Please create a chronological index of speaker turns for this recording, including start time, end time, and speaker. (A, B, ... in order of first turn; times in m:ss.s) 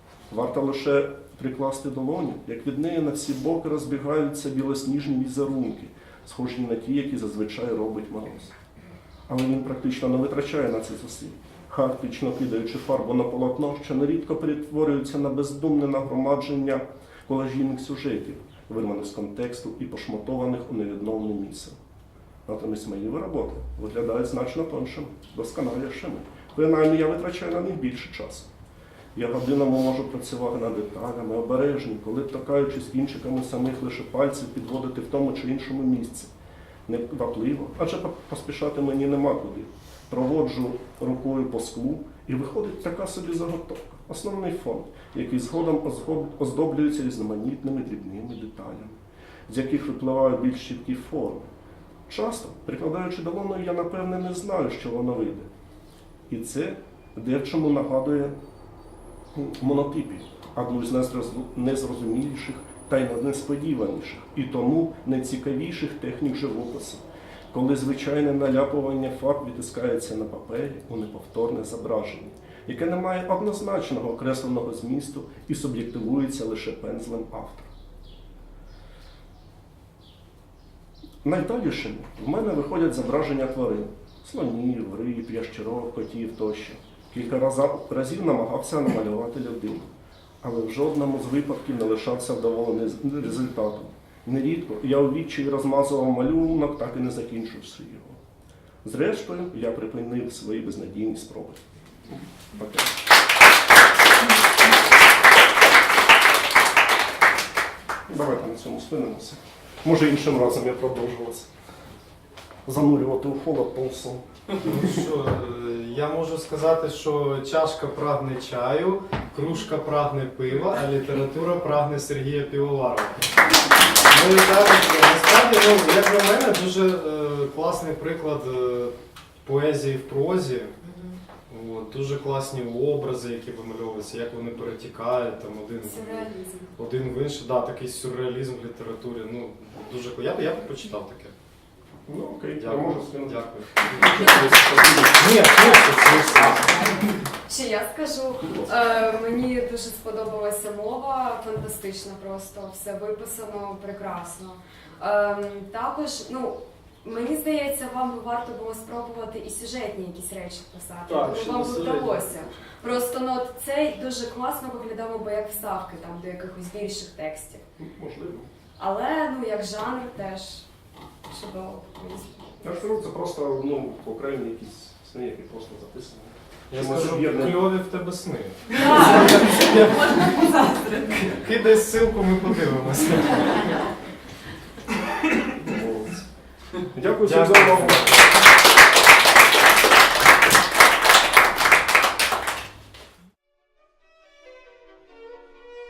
0:00.3-0:08.5 A
0:09.3-0:21.8 A
0:22.4-0:28.5 A
0:29.1-0:36.3 A
0:36.9-0:51.5 A
0:52.1-0:55.5 A
0:56.3-0:58.3 A
0:59.3-1:17.7 A
1:21.2-1:38.2 A
1:38.8-1:42.9 A
1:48.1-1:51.5 A
1:52.6-1:54.9 A
1:54.6-2:03.3 B
2:04.0-2:10.8 B
2:11.5-2:21.3 B
2:15.8-2:16.7 C
2:22.1-2:25.0 A
2:22.6-2:27.0 B
2:25.5-2:47.6 C
2:41.1-2:42.2 B
2:47.8-2:48.5 A
2:48.8-2:50.6 C
2:51.3-2:52.8 C
2:52.6-2:57.8 A
2:56.7-3:03.8 B
2:58.7-2:59.4 C
3:00.4-3:00.9 C
3:05.6-3:06.2 A
3:06.9-3:08.2 A
3:07.2-3:08.3 B